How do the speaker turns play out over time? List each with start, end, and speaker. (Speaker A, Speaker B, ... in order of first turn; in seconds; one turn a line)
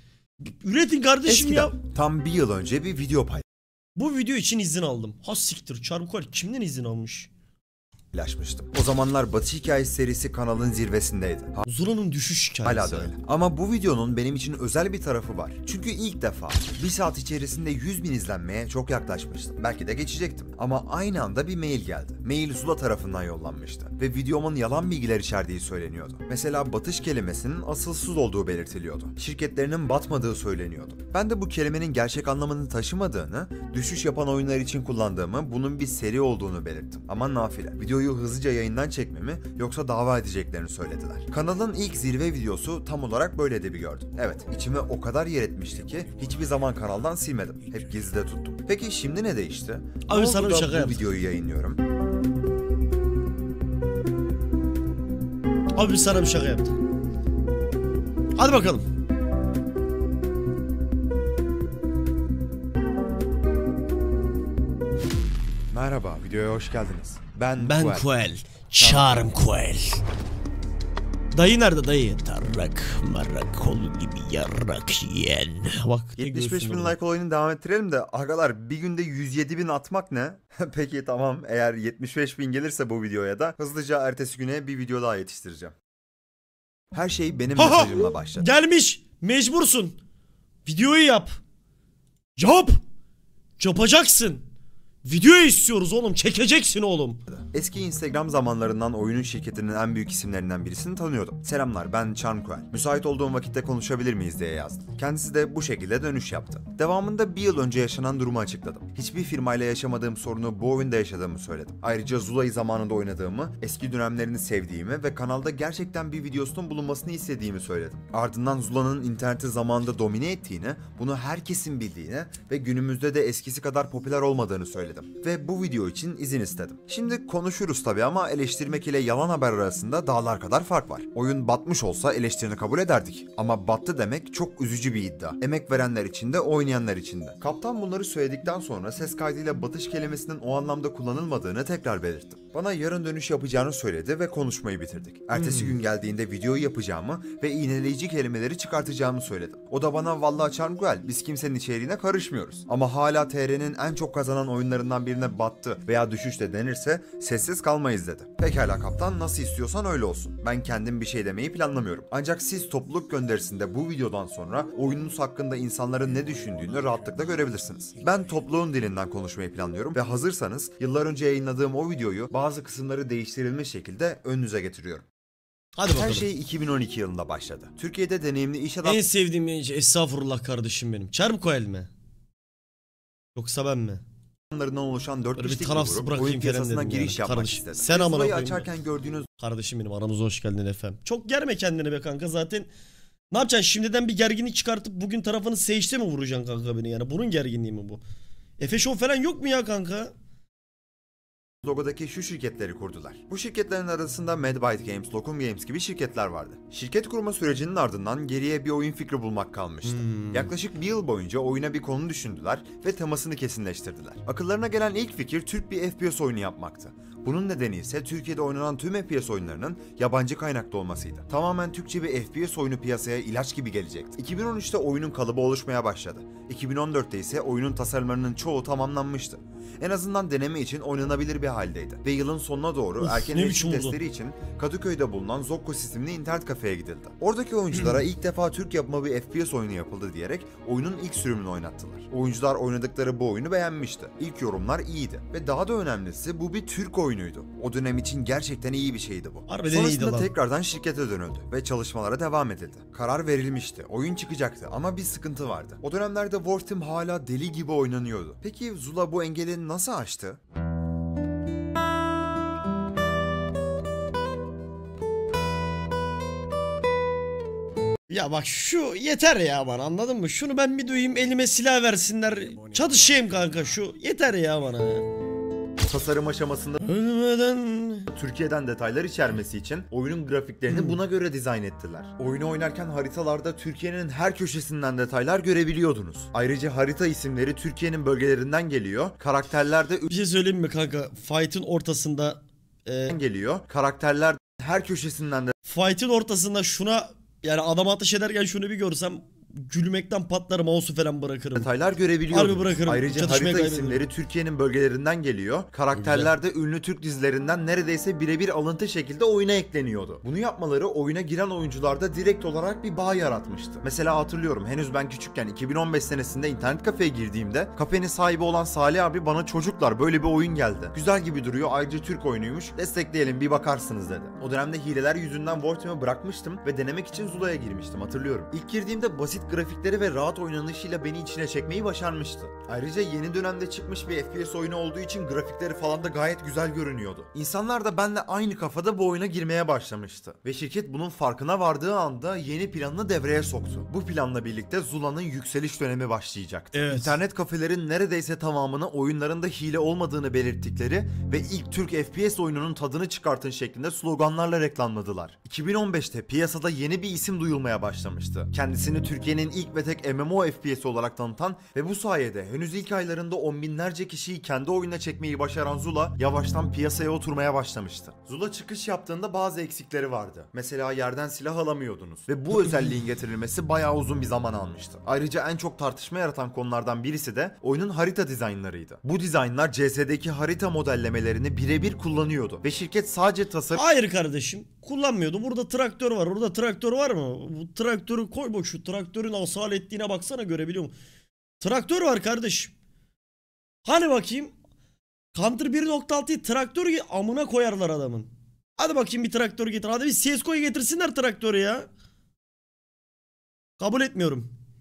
Speaker A: 0.4-1.8
Speaker B: 1.3-3.4
Speaker A: 4.0-7.3
Speaker B: 8.1-11.7
Speaker A: 11.7-13.1
Speaker B: 12.6-51.8
Speaker A: 50.1-51.0
Speaker A: 55.8-56.7
Speaker A: 58.4-58.9
Speaker B: 65.7-68.1
Speaker A: 67.6-70.0
Speaker B: 68.8-69.3
Speaker A: 71.3-77.0
Speaker B: 76.2-85.8
Speaker B: 86.9-88.5
Speaker A: 87.6-90.0
Speaker A: 90.7-91.4
Speaker A: 92.4-92.7
Speaker A: 93.6-94.4
Speaker A: 95.0-97.2
Speaker B: 97.3-175.1
Speaker A: 145.3-145.8
Speaker A: 175.8-176.3
Speaker B: 175.9-179.0
Speaker A: 178.8-181.9
Speaker A: 183.4-184.0
Speaker B: 184.5-189.3
Speaker A: 185.4-188.7
Speaker A: 189.4-192.7
Speaker A: 193.3-198.0
Speaker A: 198.6-200.1
Speaker B: 201.6-260.4
Speaker A: 209.9-210.5
Speaker A: 233.0-234.0
Speaker A: 249.5-250.3
Speaker A: 268.1-275.1
Speaker B: 275.8-276.8
Speaker A: 276.8-278.1
Speaker B: 278.1-290.1
Speaker A: 280.7-281.0
Speaker A: 290.1-293.1
Speaker B: 293.1-295.5
Speaker A: 295.6-301.7
Speaker B: 301.6-383.9
Speaker A: 302.3-304.0
Speaker A: 305.9-306.3
Speaker A: 346.7-347.2
Speaker A: 383.7-390.9
Speaker A: 391.6-392.8
Speaker A: 393.9-394.5
Speaker A: 395.3-401.9
Speaker A: 403.8-404.5